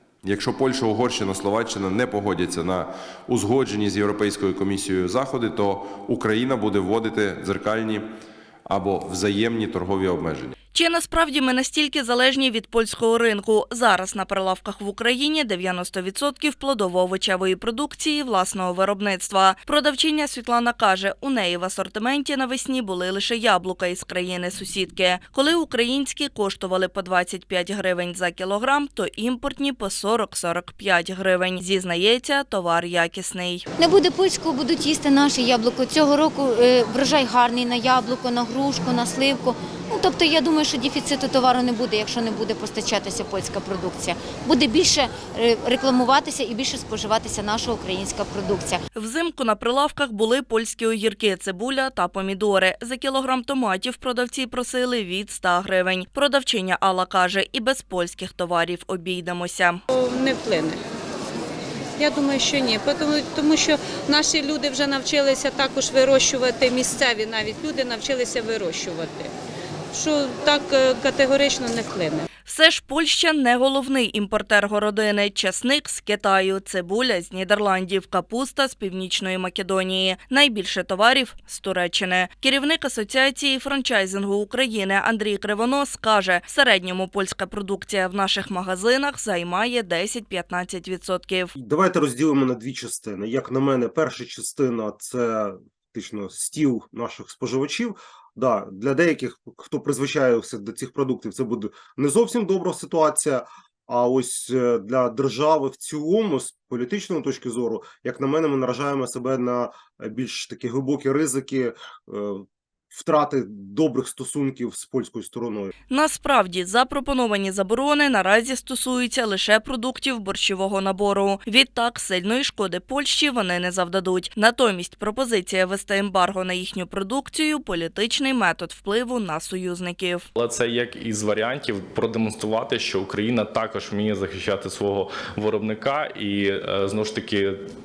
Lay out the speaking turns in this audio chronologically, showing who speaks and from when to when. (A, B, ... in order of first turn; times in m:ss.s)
0:00.2-0:08.1 A
0:08.7-0:10.6 A
0:10.7-0:33.7 B
0:33.8-0:48.8 C
0:49.0-0:59.8 B
0:59.9-1:00.8 D
1:02.0-1:09.3 D
1:09.9-1:12.2 D
1:12.4-1:31.5 B
1:31.6-1:55.7 E
1:55.9-2:10.3 B
2:10.4-2:17.6 F